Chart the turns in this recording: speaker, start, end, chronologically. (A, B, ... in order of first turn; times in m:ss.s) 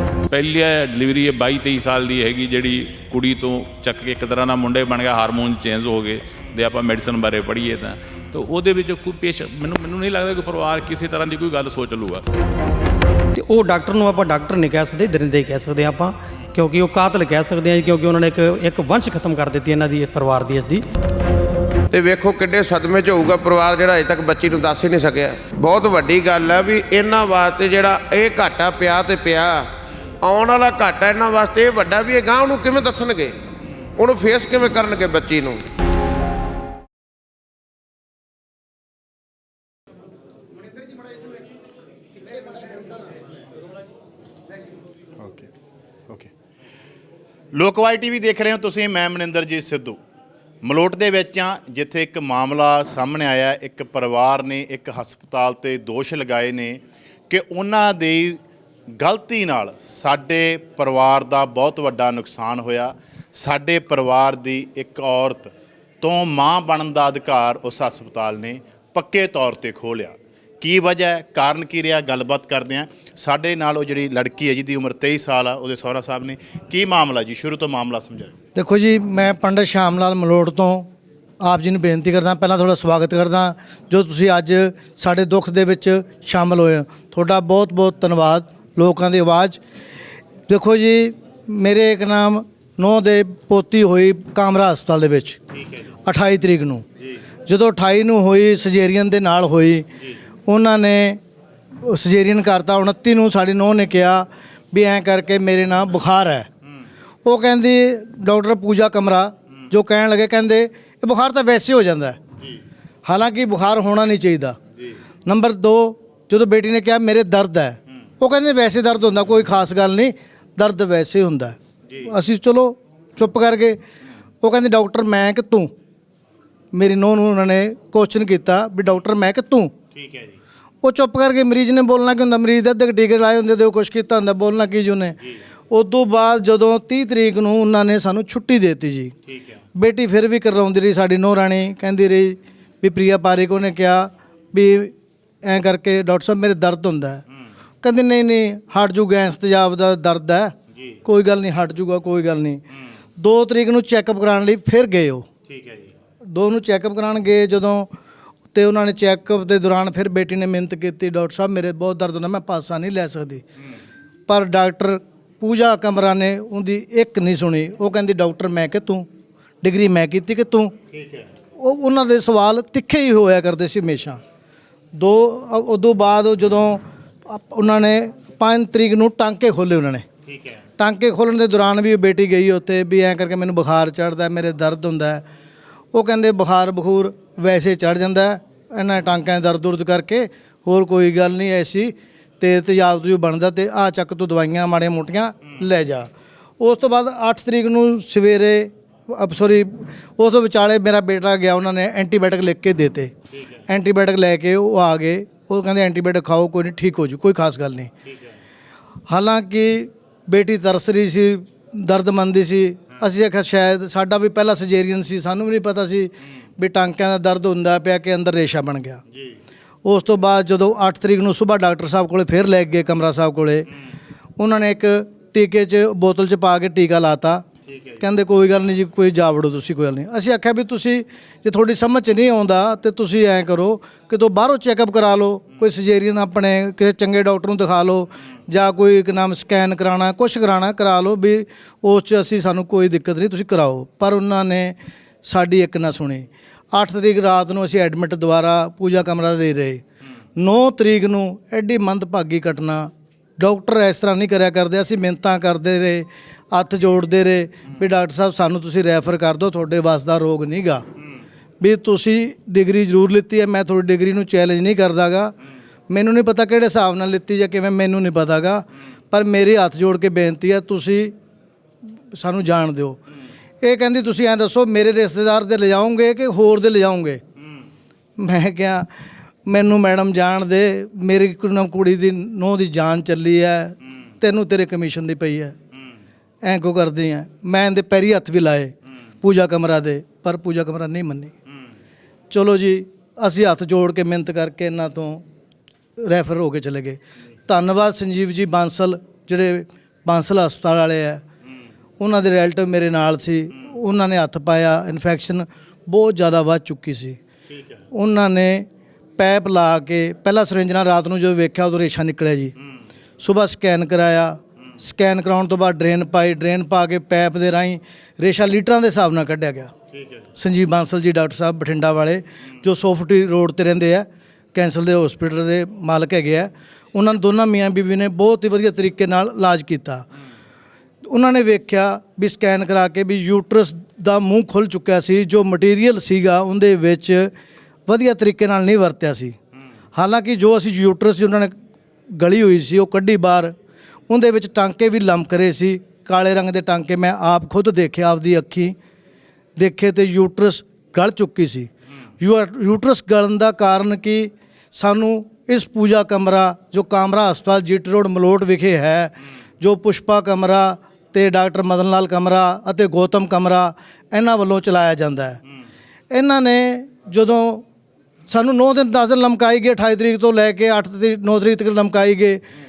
0:00.3-0:12.2 A
0:13.4-0:20.8 B
0:21.9-0:29.7 C
0:30.2-0:33.3 C
0:34.0-0:35.6 C
0:45.2-0:45.5 D
0:47.5-0:50.0 D
0:50.6-0:58.4 D
0:59.0-1:18.4 D
1:18.6-1:20.9 E
1:21.4-1:29.6 E
1:30.5-1:35.4 E
1:35.6-1:35.8 D
1:36.1-1:36.8 E
1:37.5-1:39.9 E
1:40.5-1:41.2 E
1:41.8-1:46.5 E
1:47.2-1:52.2 E
1:53.1-1:54.6 E
1:55.3-2:03.8 E
2:04.4-2:05.7 E
2:06.7-2:09.7 E
2:09.9-2:10.4 D
2:10.8-2:15.2 E
2:15.7-2:19.1 E
2:19.3-2:19.6 D
2:19.8-2:24.9 E
2:25.4-2:27.2 E
2:27.8-2:30.5 E
2:31.0-2:32.6 E
2:33.2-2:35.3 E
2:35.5-2:35.9 D
2:36.3-2:37.9 E
2:38.5-2:43.4 E
2:44.3-2:49.1 E
2:49.6-2:50.7 E
2:50.9-2:51.3 D
2:51.6-2:54.2 E
2:55.0-3:00.0 E
3:00.3-3:00.6 D
3:00.8-3:05.2 E
3:05.9-3:23.1 E
3:23.7-3:27.9 E
3:29.1-3:39.0 E
3:39.8-3:43.7 E
3:44.4-3:47.4 E
3:47.7-3:48.0 D
3:48.0-4:09.8 E
4:10.4-4:20.8 E
4:21.6-4:25.3 E
4:25.9-4:31.1 E
4:32.1-4:33.0 E
4:33.6-4:37.2 E
4:38.2-4:38.9 E
4:39.5-4:45.6 E
4:46.4-4:51.3 E
4:52.3-4:55.2 E
4:56.0-5:01.2 E
5:02.0-5:07.2 E
5:07.5-5:07.8 D
5:07.9-5:08.7 E
5:09.2-5:12.5 E
5:13.2-5:19.7 E
5:19.9-5:20.2 D
5:20.4-5:30.1 E
5:31.1-5:37.3 E
5:37.9-5:39.4 E
5:40.0-5:41.6 E
5:42.1-5:43.5 E
5:44.1-5:48.8 E
5:49.6-6:05.4 E
6:06.1-6:07.6 E
6:08.3-6:12.4 E